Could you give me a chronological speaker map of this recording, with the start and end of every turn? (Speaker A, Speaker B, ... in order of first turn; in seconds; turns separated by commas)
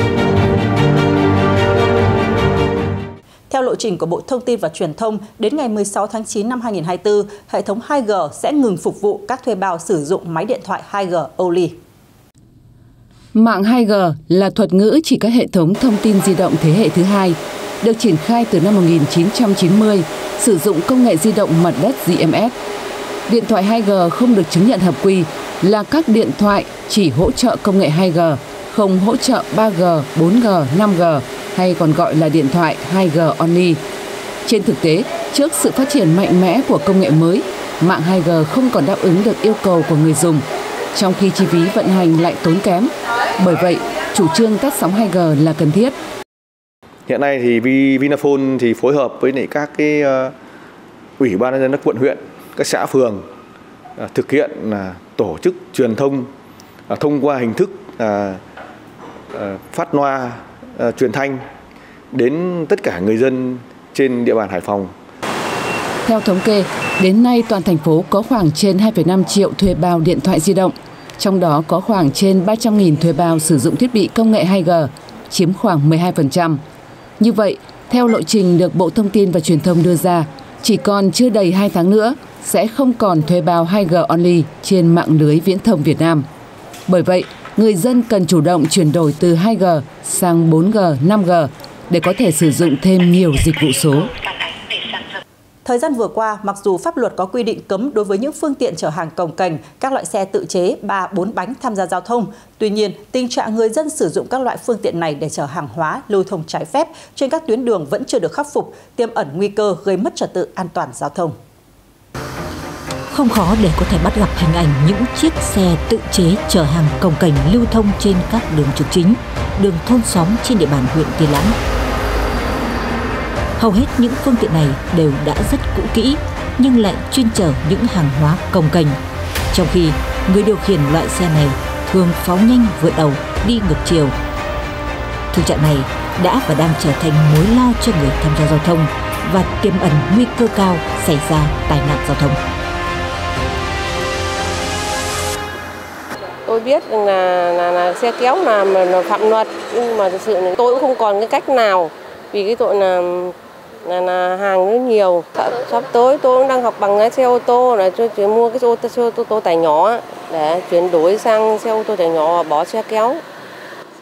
Speaker A: 3.5-11.8, Speaker B: 13.3-22.5, Speaker B: 23.3-33.8, Speaker B: 34.5-46.0, Speaker C: 47.1-50.3, Speaker C: 51.2-53.2, Speaker C: 54.0-56.3, Speaker C: 56.9-58.4, Speaker C: 59.3-61.4, Speaker C: 62.1-64.9, Speaker B: 66.0-76.6, Speaker B: 77.2-86.3, Speaker B: 86.9-94.1, Speaker A: 95.7-111.3, Speaker D: 113.1-121.5, Speaker D: 123.6-129.0, Speaker D: 129.5-134.1, Speaker D: 135.3-142.4, Speaker E: 146.5-163.2